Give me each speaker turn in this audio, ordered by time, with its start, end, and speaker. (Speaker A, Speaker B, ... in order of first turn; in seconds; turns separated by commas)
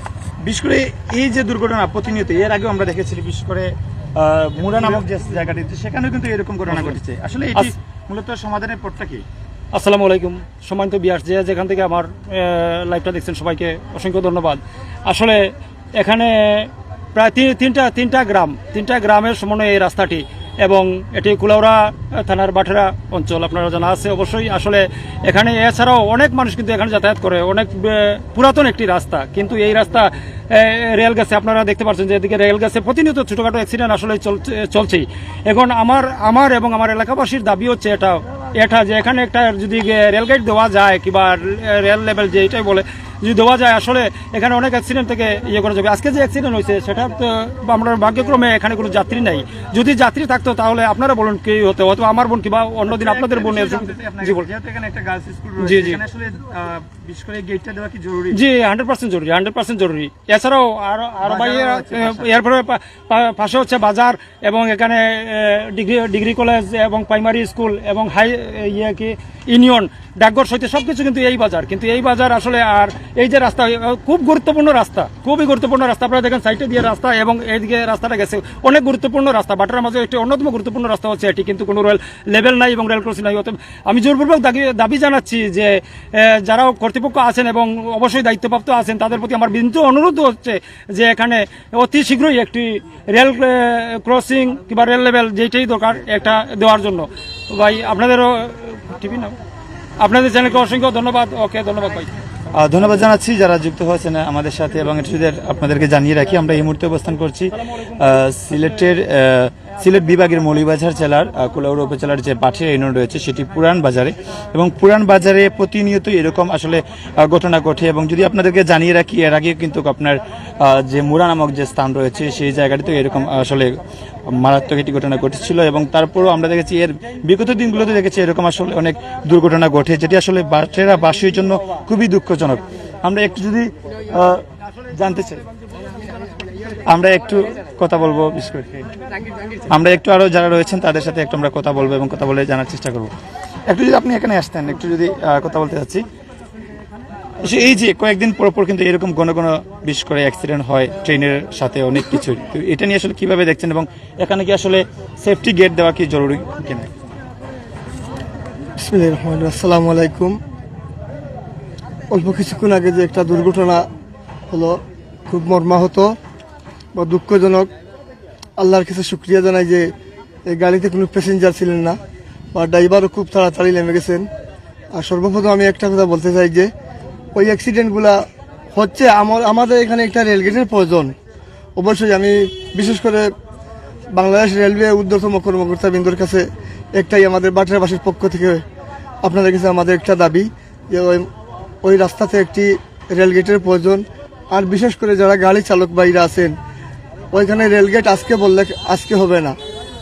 Speaker A: 0.4-9.2, Speaker B: 9.7-54.5, Speaker A: 52.9-58.4, Speaker B: 55.6-56.0, Speaker B: 58.3-99.3, Speaker A: 61.2-62.3, Speaker B: 100.0-102.1, Speaker A: 102.5-135.4, Speaker A: 136.9-138.9, Speaker A: 139.7-143.1, Speaker A: 143.7-146.1, Speaker A: 147.4-156.9, Speaker C: 158.8-160.4, Speaker C: 162.1-163.8, Speaker C: 164.5-166.1, Speaker C: 166.9-167.7, Speaker C: 168.6-169.9, Speaker C: 170.5-172.0, Speaker C: 172.5-174.3, Speaker C: 174.9-176.7, Speaker C: 177.3-181.1, Speaker C: 181.8-183.3, Speaker C: 184.1-188.6, Speaker C: 189.2-191.3, Speaker C: 191.8-196.6, Speaker C: 197.3-199.6